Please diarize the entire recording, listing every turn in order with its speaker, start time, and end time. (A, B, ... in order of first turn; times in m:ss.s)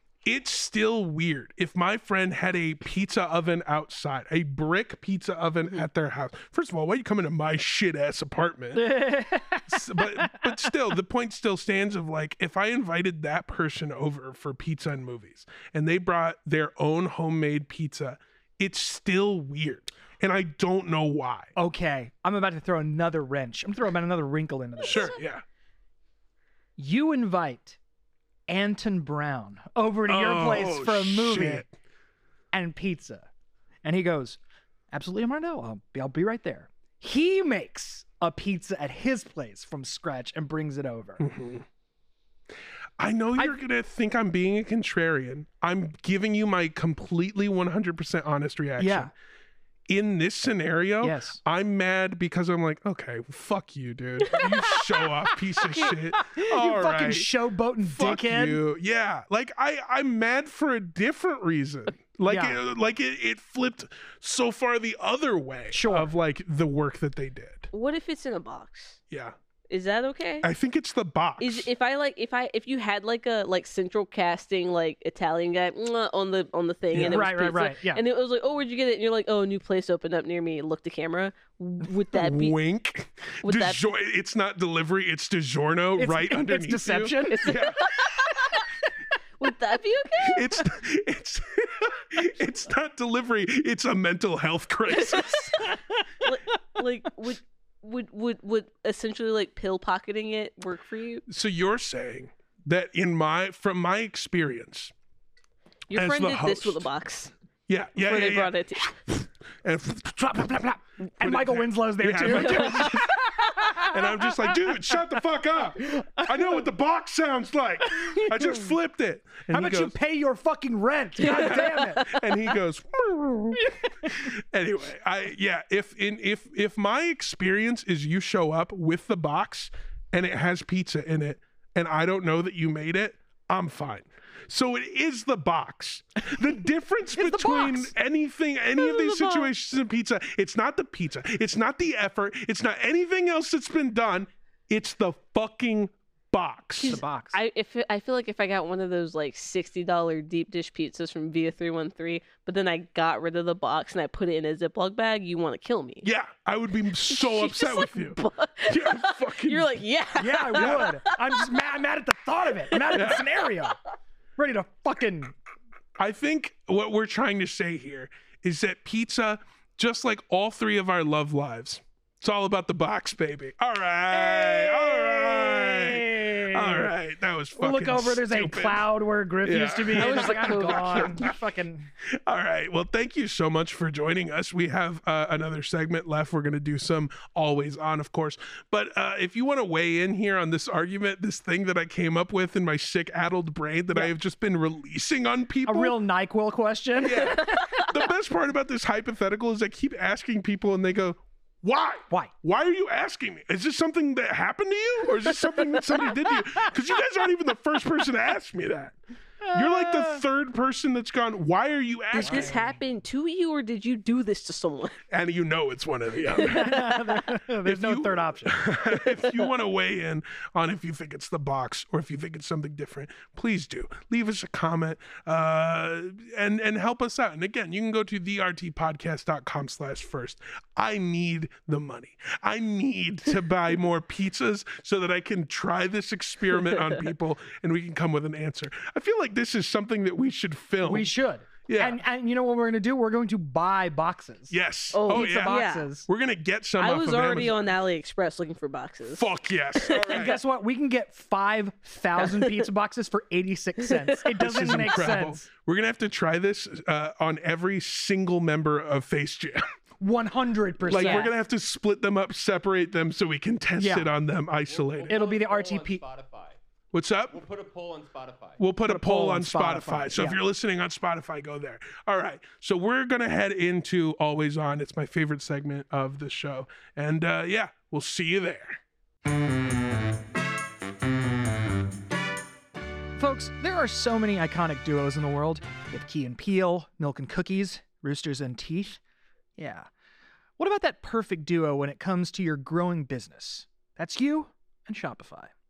0:00.2-0:09.0 A
0:08.7-0:10.7 B
0:09.7-0:21.5 A
0:21.6-0:25.2 B
0:24.8-0:25.4 A
0:26.8-0:27.8 B
0:28.5-0:31.6 B
0:30.1-0:31.7 A
0:32.5-0:33.3 B
0:33.8-0:34.4 B
0:34.9-0:41.2 B
0:41.2-0:41.6 A
0:43.0-0:49.1 A
0:48.8-0:49.1 B
0:49.9-1:07.7 A
0:51.0-0:51.4 B
0:54.2-0:54.8 C
0:55.6-0:55.9 C
0:56.3-0:58.6 B
1:02.3-1:02.6 B
1:05.7-1:06.1 B
1:07.7-1:09.0 C
1:09.7-1:10.5 C
1:10.4-1:11.7 A
1:11.4-1:22.6 C
1:16.9-1:17.2 A
1:17.0-1:18.0 B
1:22.1-1:28.2 A
1:23.4-1:23.8 C
1:26.0-1:27.7 B
1:27.3-1:28.6 C
1:29.4-1:30.6 C
1:30.2-1:35.7 A
1:34.9-1:41.2 C
1:41.3-1:44.9 A
1:45.9-1:47.3 C
1:45.9-1:46.9 A
1:47.7-2:00.0 A
1:48.0-1:48.9 C
1:51.2-1:54.6 B
1:52.5-1:53.4 C
1:55.9-1:56.4 B
1:58.0-1:58.4 B
1:59.5-2:02.2 B
2:01.2-2:27.0 A
2:17.1-2:17.9 B
2:18.8-2:19.5 C
2:26.8-2:27.4 B
2:26.8-2:36.1 C
2:36.0-2:39.7 A
2:37.1-2:41.4 C
2:40.2-2:43.8 B
2:40.6-2:40.9 A
2:42.9-2:43.4 A
2:44.4-2:45.3 B
2:46.0-2:58.9 A
2:54.1-2:56.9 B
2:57.6-3:01.9 B
2:59.4-3:01.4 A
3:00.0-3:01.2 C
3:02.3-3:16.0 A
3:15.7-3:17.8 B
3:17.0-3:32.6 A
3:29.4-3:30.2 B
3:32.1-3:32.8 B
3:32.2-3:35.0 C
3:35.1-3:36.7 A
3:36.4-3:37.0 C
3:36.4-3:38.7 B
3:37.6-4:01.1 A
4:00.8-4:04.6 B
4:01.6-4:02.0 A
4:04.5-4:07.6 A
4:04.9-4:05.9 C
4:05.1-4:06.0 B
4:06.8-4:09.3 C
4:09.1-4:10.4 A
4:09.8-4:10.2 C
4:10.0-4:15.5 B
4:14.4-4:19.6 A
4:20.0-4:21.3 B
4:20.9-4:25.2 A
4:20.9-4:21.3 C
4:23.8-4:24.1 B
4:24.7-4:26.6 D
4:25.1-4:26.0 B
4:26.9-4:27.4 A
4:27.3-4:28.6 D
4:28.6-4:38.8 A
4:28.8-4:30.4 B
4:43.2-4:49.0 B
4:49.6-4:49.9 B
4:50.6-4:55.5 B